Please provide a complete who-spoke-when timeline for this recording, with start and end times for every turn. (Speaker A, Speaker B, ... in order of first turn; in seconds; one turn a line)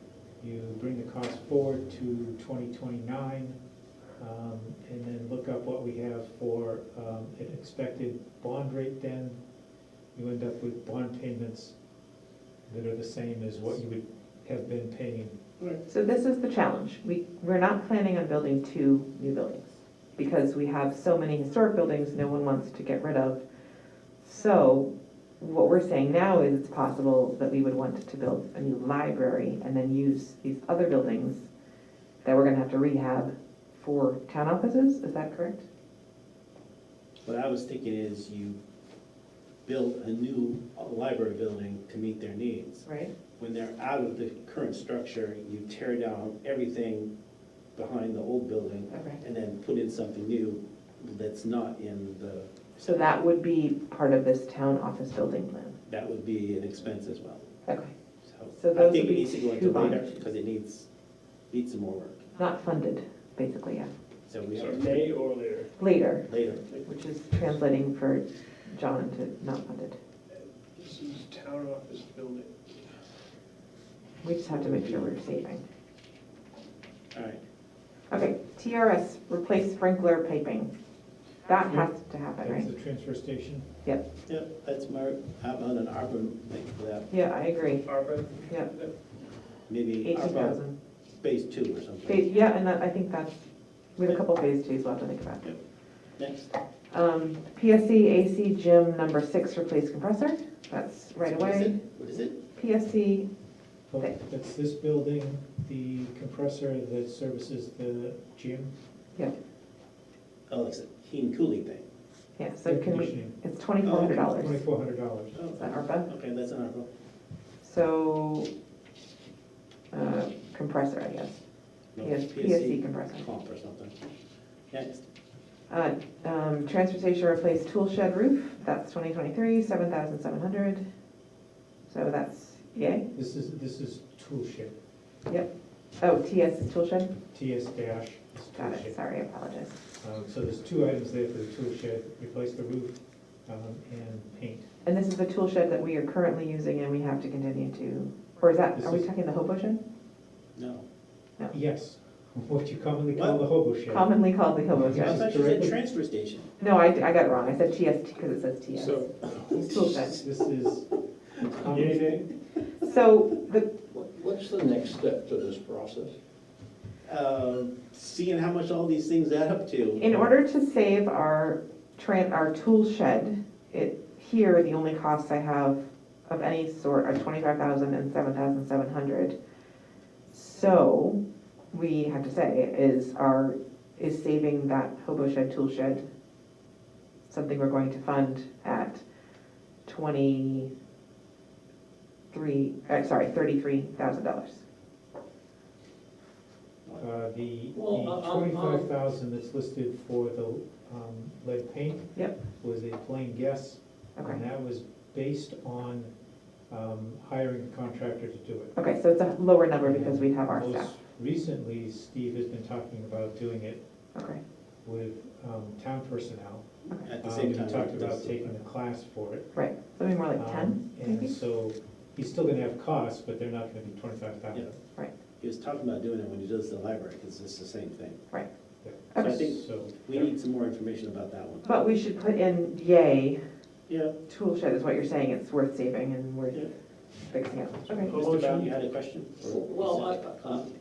Speaker A: 0.4-3.6
Speaker A: 4.2-9.4
Speaker A: 10.2-11.7
Speaker A: 12.7-15.3
Speaker B: 15.9-23.4
Speaker B: 24.2-24.9
Speaker B: 25.4-31.5
Speaker B: 32.2-35.6
Speaker C: 37.2-38.6
Speaker C: 39.6-42.9
Speaker B: 42.9-43.1
Speaker C: 43.4-47.1
Speaker C: 47.8-53.1
Speaker B: 48.9-49.2
Speaker B: 52.8-55.8
Speaker C: 55.9-57.4
Speaker B: 57.7-57.9
Speaker C: 58.2-60.9
Speaker B: 58.6-60.2
Speaker C: 61.5-62.2
Speaker B: 62.4-63.9
Speaker C: 64.3-65.1
Speaker D: 64.5-65.7
Speaker B: 65.8-66.3
Speaker C: 66.3-66.7
Speaker B: 66.8-70.0
Speaker D: 70.8-72.7
Speaker B: 74.2-75.6
Speaker C: 74.5-75.2
Speaker C: 77.1-77.4
Speaker B: 78.1-80.7
Speaker B: 81.5-82.7
Speaker A: 81.7-83.7
Speaker C: 84.3-87.1
Speaker B: 87.1-87.9
Speaker D: 87.9-88.9
Speaker C: 89.7-90.6
Speaker B: 90.0-90.8
Speaker C: 91.2-92.3
Speaker B: 92.1-93.5
Speaker B: 94.0-95.5
Speaker C: 96.2-96.5
Speaker B: 96.9-101.8
Speaker C: 101.2-102.4
Speaker B: 102.6-103.3
Speaker A: 103.9-108.7
Speaker C: 110.5-111.8
Speaker B: 112.4-114.6
Speaker A: 112.7-115.4
Speaker C: 113.8-114.1
Speaker C: 115.3-116.9
Speaker B: 115.5-116.1
Speaker B: 117.6-118.5
Speaker B: 119.9-121.4
Speaker C: 121.9-124.0
Speaker B: 122.0-123.2
Speaker C: 124.7-125.0
Speaker B: 125.7-130.8
Speaker B: 131.9-133.1
Speaker A: 133.1-134.8
Speaker B: 135.3-137.2
Speaker A: 137.3-138.9
Speaker B: 138.6-139.8
Speaker A: 140.0-144.7
Speaker B: 144.8-149.8
Speaker A: 148.8-149.1
Speaker C: 150.6-150.8
Speaker A: 151.5-154.1
Speaker C: 153.1-153.4
Speaker B: 153.9-155.3
Speaker A: 154.8-155.8
Speaker C: 155.0-156.5
Speaker B: 156.6-160.2
Speaker D: 158.8-159.3
Speaker C: 159.2-160.0
Speaker A: 160.1-162.3
Speaker C: 161.5-162.3
Speaker B: 162.8-163.7
Speaker E: 163.9-166.1
Speaker C: 167.1-170.1
Speaker B: 170.0-179.3
Speaker B: 180.3-181.2
Speaker B: 181.7-186.0
Speaker B: 187.3-189.0
Speaker B: 189.9-190.7
Speaker B: 192.3-194.6
Speaker A: 197.0-206.1
Speaker E: 197.7-198.9
Speaker A: 206.7-208.7
Speaker B: 208.8-210.9
Speaker A: 209.8-213.8
Speaker B: 214.2-214.4
Speaker A: 214.8-216.7
Speaker C: 216.9-218.5
Speaker A: 217.2-219.6
Speaker B: 219.5-221.3
Speaker A: 220.3-224.8
Speaker C: 225.4-228.2
Speaker A: 228.8-230.3
Speaker C: 229.2-231.7
Speaker B: 231.7-233.4
Speaker C: 233.9-234.2
Speaker B: 234.3-236.7
Speaker B: 237.3-238.2
Speaker D: 238.0-238.7
Speaker C: 238.1-240.7
Speaker E: 239.4-240.4